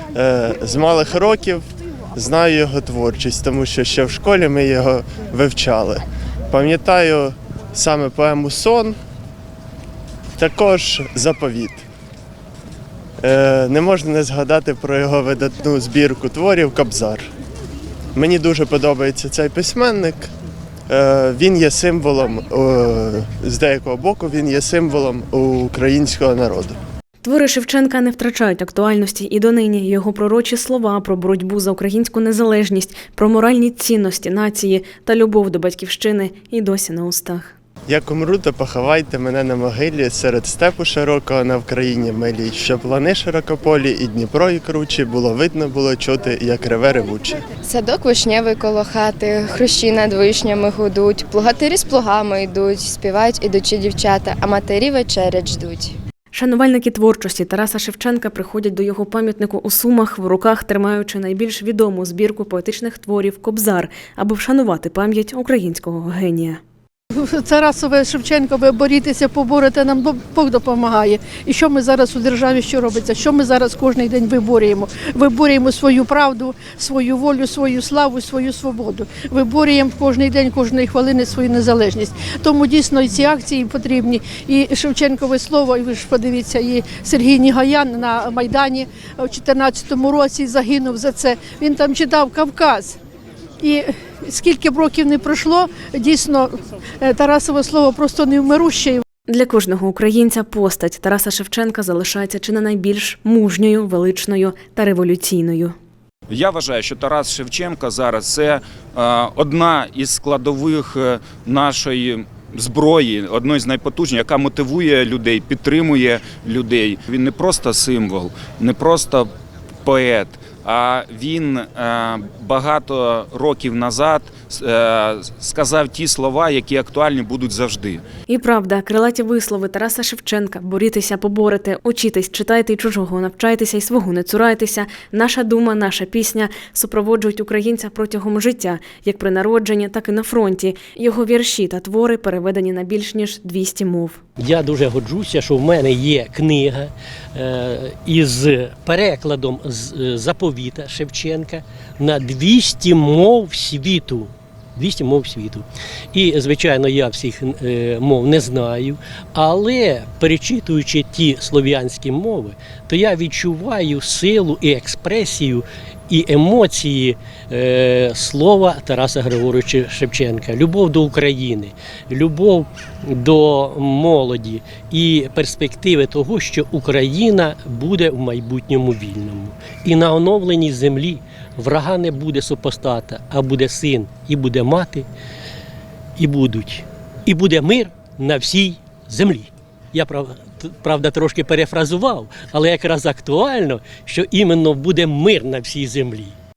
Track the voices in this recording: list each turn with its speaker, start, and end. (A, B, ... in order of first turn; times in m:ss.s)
0:00.1-0:01.6 A
0:02.2-0:09.0 A
0:10.4-0:11.8 A
0:13.2-0:17.3 A
0:18.1-0:20.3 A
0:20.9-0:26.8 A
0:27.2-0:37.5 B
0:37.9-0:47.4 A
0:47.6-0:56.0 C
0:56.3-1:06.6 B
1:07.2-1:33.0 D
1:33.6-1:39.0 D
1:39.3-1:45.8 B
1:46.3-1:59.3 E
1:59.9-2:08.0 E
2:08.3-2:24.2 B
2:24.4-3:05.1 F
3:06.2-3:16.3 F